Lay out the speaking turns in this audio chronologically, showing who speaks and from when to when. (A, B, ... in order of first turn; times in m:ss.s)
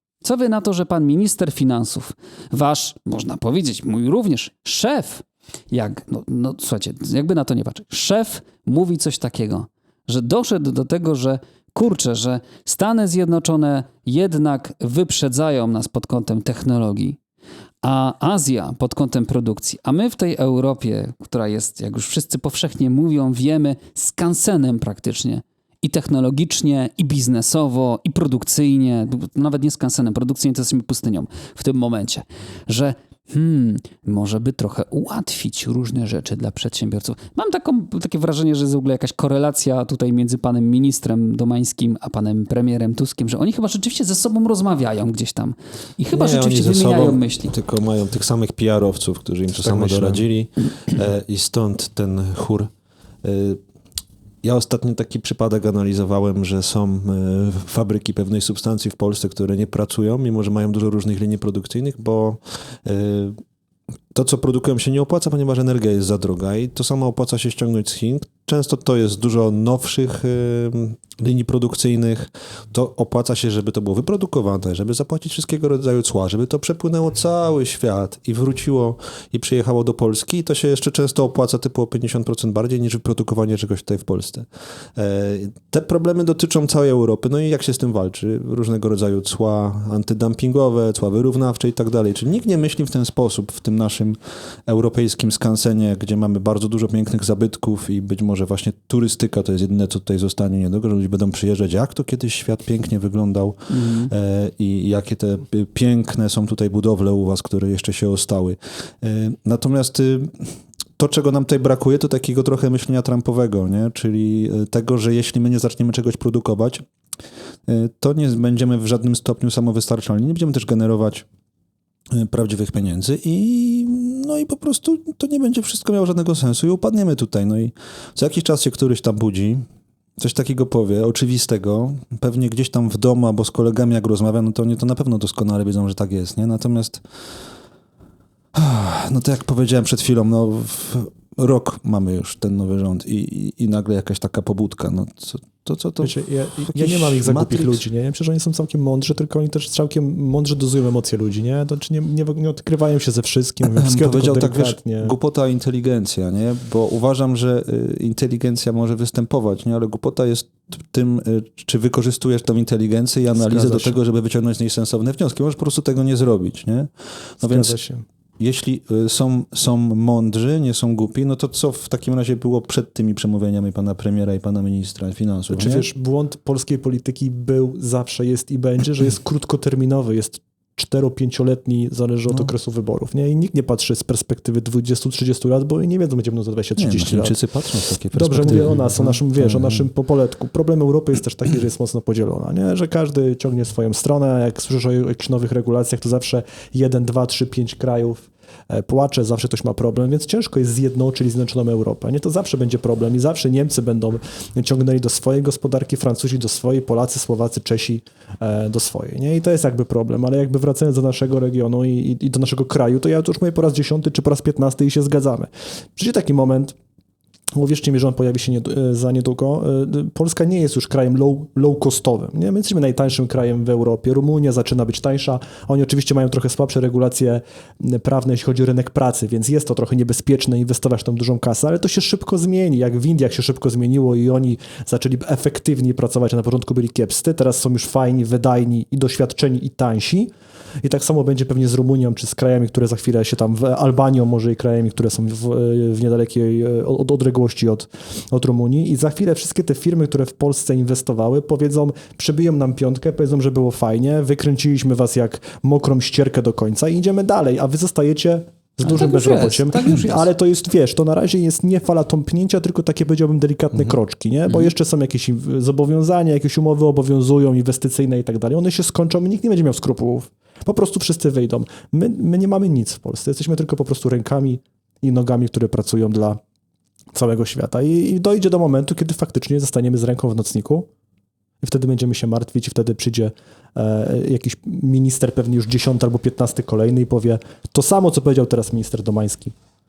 0:00.2-0:17.2 A
0:17.8-0:47.5 A
0:46.1-0:52.7 B
0:49.7-0:50.2 C
0:53.2-0:53.6 B
0:54.4-1:03.4 B
1:04.1-1:56.9 B
1:43.7-1:44.1 A
1:57.7-2:01.3 B
2:02.1-2:09.6 B
2:10.2-2:17.0 B
2:18.6-2:27.8 B
2:26.0-2:35.2 C
2:33.6-2:47.8 B
2:43.4-2:44.0 C
2:47.4-2:48.0 C
2:48.4-2:55.9 B
2:55.5-3:07.4 C
3:06.8-3:09.8 B
3:08.1-3:36.8 C
3:37.6-4:00.3 C
4:00.8-4:36.4 C
4:18.8-4:20.3 A
4:37.1-4:40.9 C
4:41.6-4:49.5 C